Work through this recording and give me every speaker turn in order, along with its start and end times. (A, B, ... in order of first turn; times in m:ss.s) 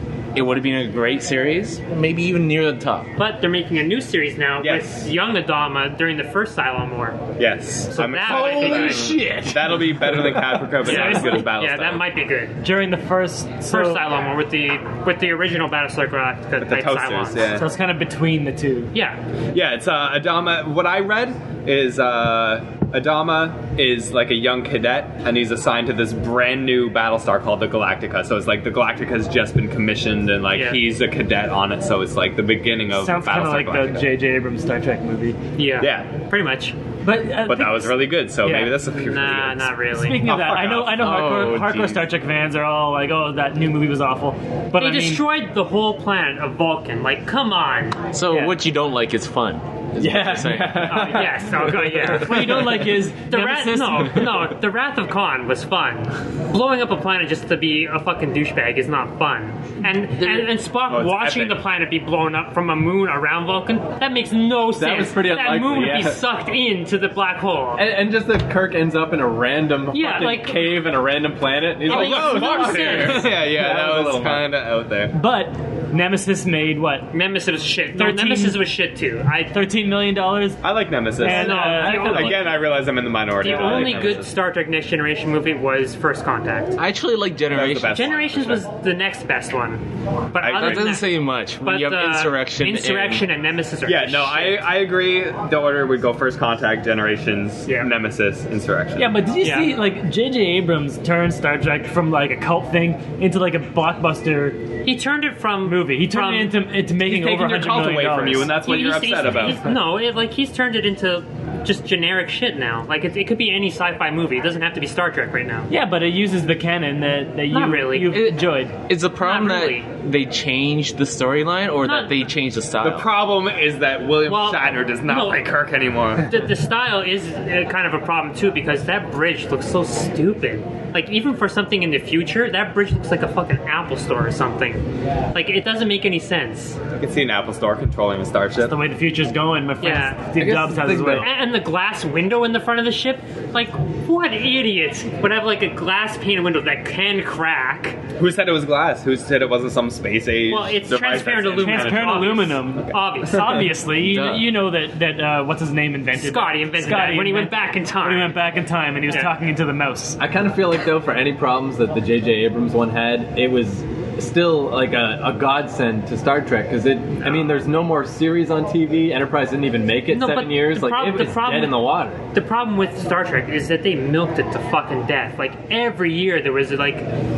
0:00.3-0:03.1 A
0:03.2-0:07.2 B
0:04.6-0:05.1 C
0:07.4-0:12.0 C
0:07.9-0:09.1 B
0:08.3-0:10.3 A
0:09.2-0:09.7 D
0:10.8-0:11.5 E
0:10.8-0:12.6 B
0:12.6-0:14.0 E
0:13.7-0:17.6 B
0:16.6-0:17.7 C
0:17.6-0:18.9 E
0:18.9-0:19.2 B
0:19.5-0:34.1 C
0:30.5-0:30.8 B
0:32.9-0:35.4 E
0:35.6-0:36.8 B
0:35.8-0:36.1 C
0:37.0-0:38.8 E
0:37.4-0:41.0 C
0:38.9-0:40.2 B
0:39.9-0:45.2 E
0:40.9-0:42.1 A
0:44.8-0:48.0 B
0:48.1-0:51.0 A
0:48.3-0:48.6 E
0:50.0-0:52.2 D
0:50.9-1:07.8 B
0:52.2-0:54.3 E
1:00.9-1:01.6 C
1:04.7-1:06.2 D
1:07.8-1:14.5 D
1:09.9-1:10.9 B
1:11.8-1:13.2 B
1:11.9-1:15.1 C
1:15.1-1:17.1 E
1:17.1-1:19.6 B
1:17.9-1:18.6 E
1:19.5-1:20.6 E
1:20.6-1:24.3 C
1:21.2-1:22.4 E
1:21.2-1:22.6 B
1:23.4-1:26.8 B
1:26.8-1:28.1 A
1:27.5-1:28.6 C
1:27.9-1:31.1 B
1:30.4-1:30.9 C
1:30.5-1:33.3 A
1:31.6-1:34.6 B
1:33.8-1:39.2 C
1:37.6-1:37.9 B
1:39.0-1:44.6 E
1:39.4-1:39.8 B
1:44.8-1:46.6 B
1:45.6-1:48.6 E
1:47.0-1:49.6 C
1:48.6-1:55.7 B
1:55.7-1:58.7 E
1:57.5-1:58.2 B
1:58.1-2:03.1 A
1:59.2-1:59.9 B
2:01.8-2:02.2 B
2:02.8-2:06.3 C
2:04.2-2:05.6 B
2:06.3-2:16.8 B
2:17.0-2:18.8 C
2:18.6-2:21.3 E
2:19.8-2:20.2 B
2:20.4-2:21.3 D
2:21.2-2:28.0 B
2:28.2-2:32.4 C
2:30.5-2:33.5 B
2:31.6-2:40.2 E
2:34.0-2:34.5 A
2:36.1-2:38.4 B
2:40.2-2:52.2 D
2:47.2-2:47.5 B
2:50.1-2:57.1 B